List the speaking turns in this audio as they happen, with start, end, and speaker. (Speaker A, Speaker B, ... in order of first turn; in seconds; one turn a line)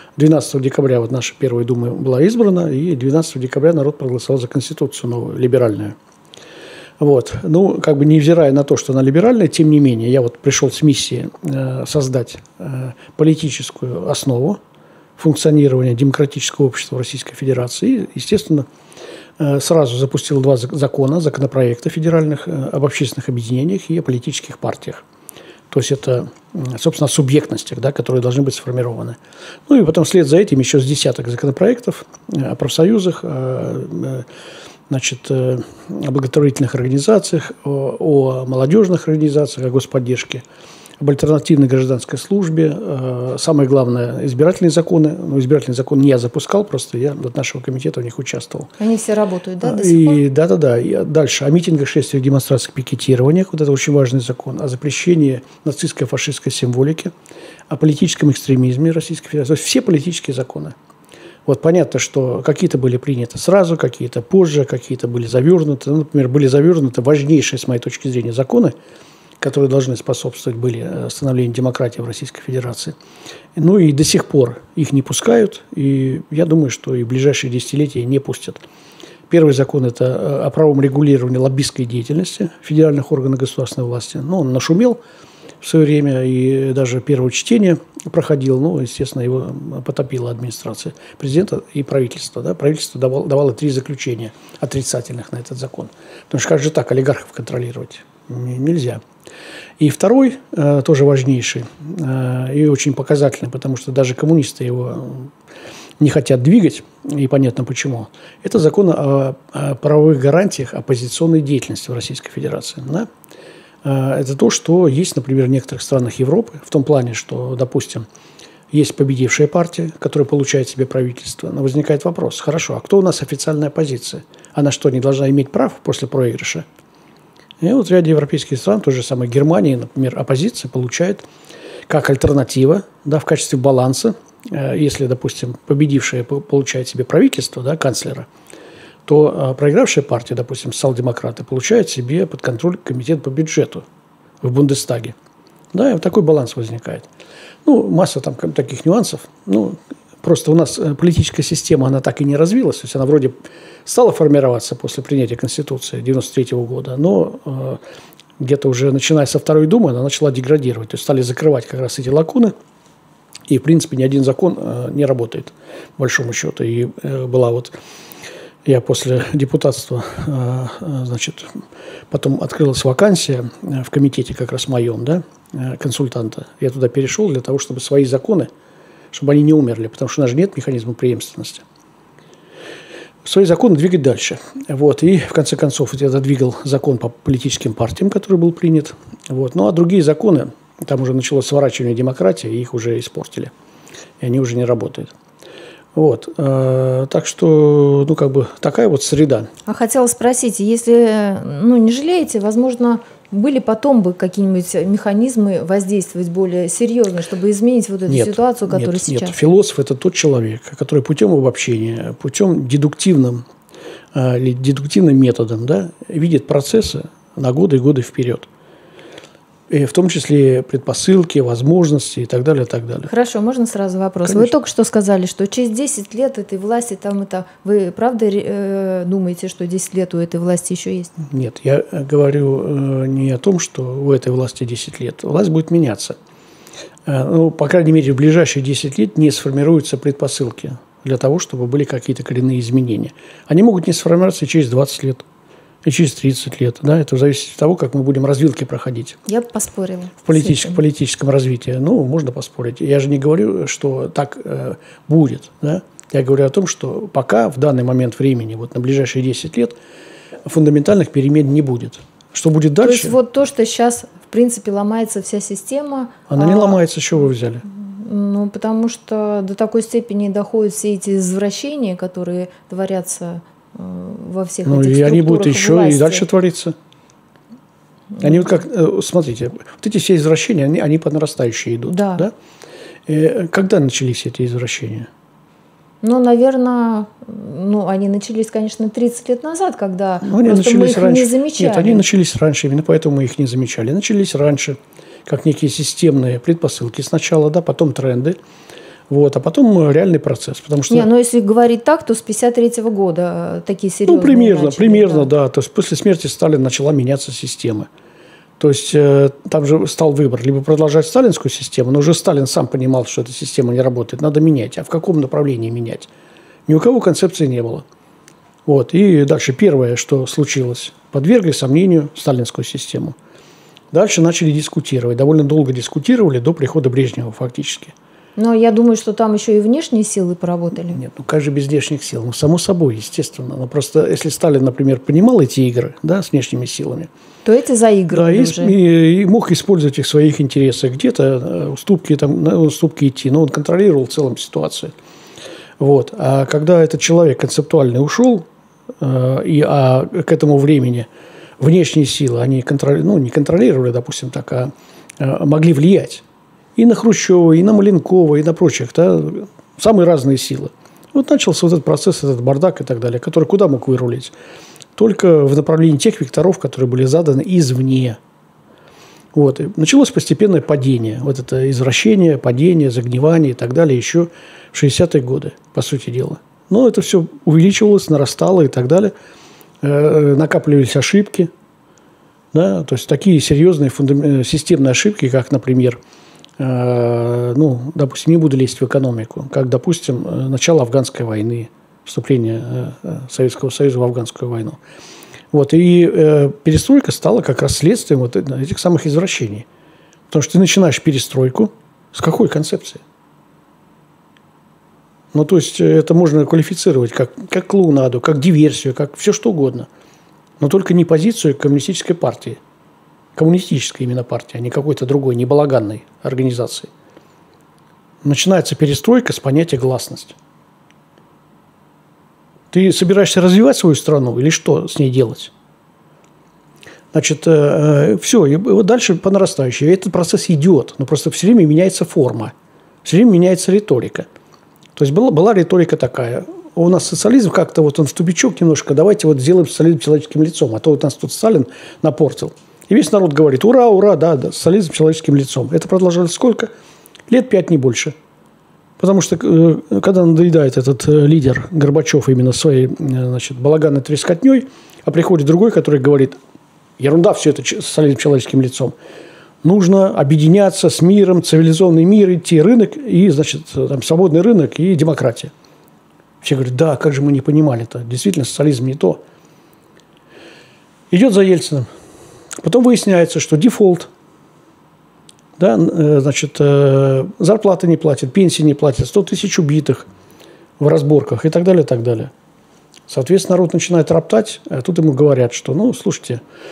Speaker A: 0.1-6.0
Speaker A: 7.0-14.6
Speaker A: 15.2-18.7
Speaker A: 19.4-25.0
Speaker A: 25.7-34.2
Speaker A: 34.9-40.4
Speaker A: 41.0-48.7
Speaker B: 48.8-50.2
Speaker A: 49.6-57.1
Speaker A: 57.7-60.7
Speaker A: 61.5-68.7
Speaker A: 69.4-72.9
Speaker A: 73.5-78.6
Speaker A: 79.3-85.0
Speaker A: 85.6-99.0
Speaker A: 99.8-105.3
Speaker A: 106.0-113.1
Speaker A: 113.8-118.0
Speaker A: 118.7-126.6
Speaker A: 127.6-131.2
Speaker A: 131.9-138.3
Speaker A: 139.1-143.8
Speaker A: 144.4-145.1
Speaker A: 145.7-147.1
Speaker A: 147.6-153.3
Speaker A: 153.8-157.8
Speaker A: 158.4-162.5
Speaker A: 163.5-167.8
Speaker A: 168.6-178.5
Speaker A: 179.1-181.6
Speaker A: 183.2-193.5
Speaker A: 194.2-195.1
Speaker A: 195.9-199.5
Speaker B: 199.7-209.4
Speaker A: 208.1-213.4
Speaker A: 214.1-218.5
Speaker A: 219.7-223.1
Speaker B: 223.1-231.1
Speaker A: 224.2-224.5
Speaker A: 231.2-236.2
Speaker A: 237.1-245.2
Speaker A: 245.8-249.2
Speaker B: 249.2-250.8
Speaker A: 250.2-259.8
Speaker A: 260.4-263.1
Speaker B: 262.8-266.8
Speaker A: 266.3-267.6
Speaker B: 267.7-276.3
Speaker A: 274.6-276.7
Speaker B: 278.1-278.5
Speaker A: 278.2-282.3
Speaker B: 281.9-282.2
Speaker A: 283.1-285.1
Speaker B: 286.0-292.1
Speaker A: 290.2-298.4
Speaker A: 299.1-301.1
Speaker B: 300.9-305.3
Speaker A: 304.1-307.9
Speaker A: 308.6-316.1
Speaker A: 316.7-317.8
Speaker A: 318.6-323.1
Speaker A: 323.9-327.9
Speaker B: 328.4-331.0
Speaker A: 330.9-337.1
Speaker B: 337.4-338.8
Speaker A: 338.1-344.9
Speaker A: 345.8-348.5
Speaker A: 349.0-351.1
Speaker A: 351.6-356.2
Speaker A: 356.8-364.3
Speaker A: 364.9-368.2
Speaker A: 369.3-379.1
Speaker A: 379.8-381.5
Speaker A: 382.5-386.0
Speaker A: 386.6-394.8
Speaker A: 395.5-399.6
Speaker A: 400.3-403.0
Speaker A: 405.3-409.9
Speaker A: 410.6-412.6
Speaker A: 413.3-416.9
Speaker A: 418.2-420.4
Speaker A: 422.7-425.5
Speaker A: 427.1-432.5
Speaker A: 433.0-434.3
Speaker A: 434.9-446.7
Speaker A: 447.3-448.1
Speaker A: 449.0-456.4
Speaker A: 457.0-458.9
Speaker A: 459.6-465.5
Speaker A: 466.4-469.2
Speaker A: 471.1-471.9
Speaker A: 472.6-474.1
Speaker A: 475.6-480.1
Speaker A: 480.8-482.3
Speaker A: 483.1-486.4